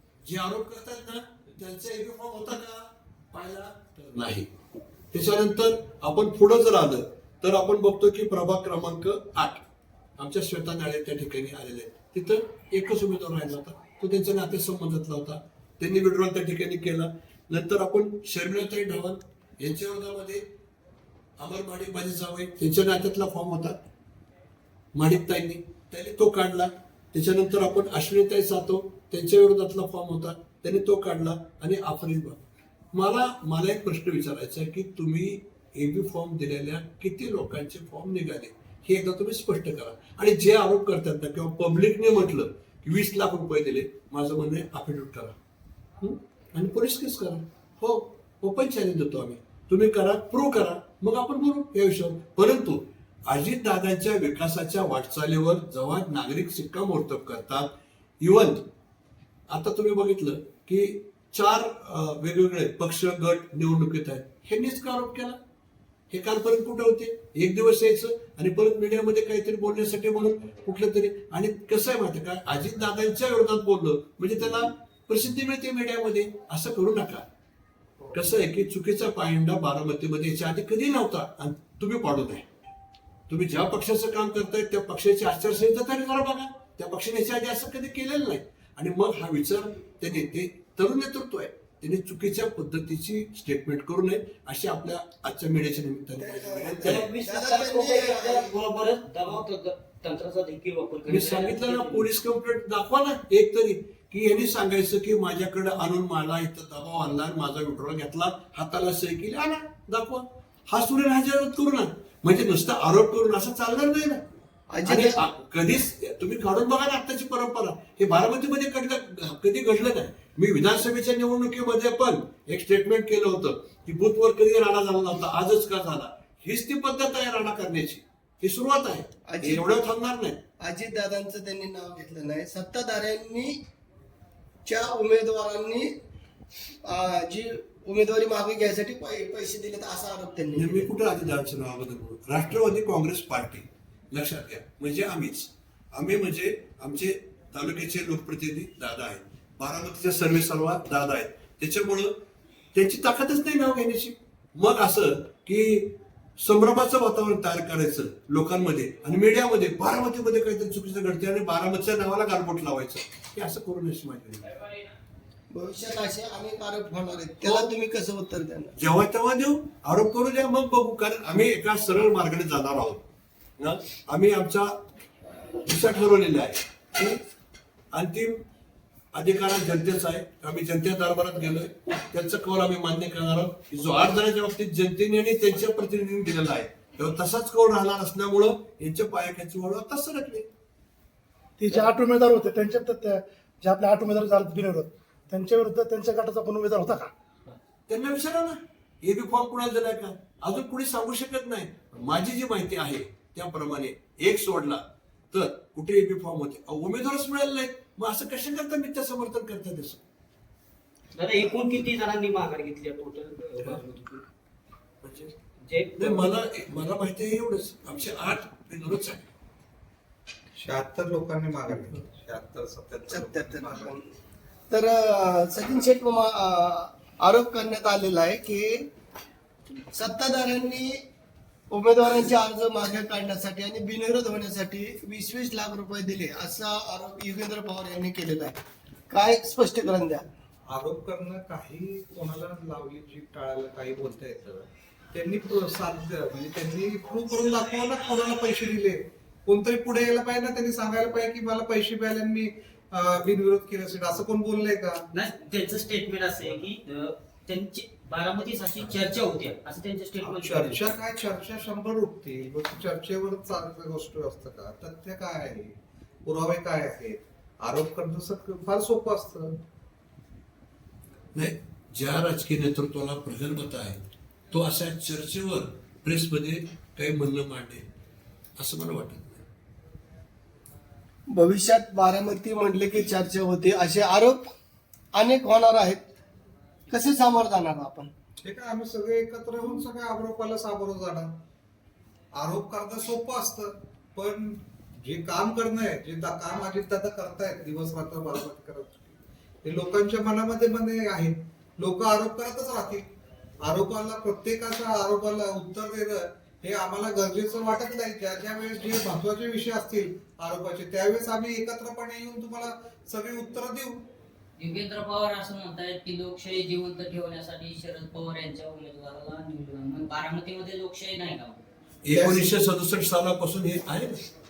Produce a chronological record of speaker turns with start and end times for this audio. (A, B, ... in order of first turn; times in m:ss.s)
0:00.2-0:04.5 A
0:05.1-0:09.6 A
0:10.2-0:20.4 A
0:21.4-0:23.8 A
0:24.9-0:32.4 A
0:32.9-0:45.4 A
0:46.0-0:58.6 A
0:59.5-1:05.4 A
1:06.1-1:17.2 A
1:18.1-1:22.5 A
1:23.3-1:37.1 A
1:36.2-1:38.5 B
1:36.8-1:42.0 C
1:41.1-1:54.2 A
1:54.7-1:55.2 B
1:54.8-2:10.4 A
2:09.3-2:09.8 B
2:10.6-2:13.6 B
2:14.6-2:15.9 B
2:16.8-2:20.9 B
2:20.5-2:32.2 A
2:32.7-2:44.5 A
2:45.5-2:48.7 B
2:47.4-2:47.7 A
2:48.8-2:53.0 A
2:53.6-2:54.7 A
2:55.6-2:57.2 A
2:57.9-2:58.4 A
2:59.1-3:10.5 A
3:11.6-3:17.1 D
3:17.9-3:30.0 A
3:31.2-3:34.2 C
3:35.0-3:35.3 A
3:35.6-3:36.3 C
3:36.0-3:39.3 A
3:40.6-3:43.9 E
3:43.1-3:44.0 B
3:44.7-3:48.9 B
3:49.9-3:51.0 B
3:51.7-4:00.2 B
4:00.7-4:15.0 E
4:15.1-4:20.8 C
4:20.2-4:25.7 E
4:26.2-4:29.5 E
4:31.3-4:37.8 A
4:38.6-4:39.4 A
4:41.3-4:44.4 B
4:45.1-4:46.0 B
4:46.9-4:48.1 B
4:48.4-4:51.3 E
4:52.3-5:03.0 E
5:03.6-5:14.0 E
5:14.6-5:21.6 F
5:22.0-5:24.2 A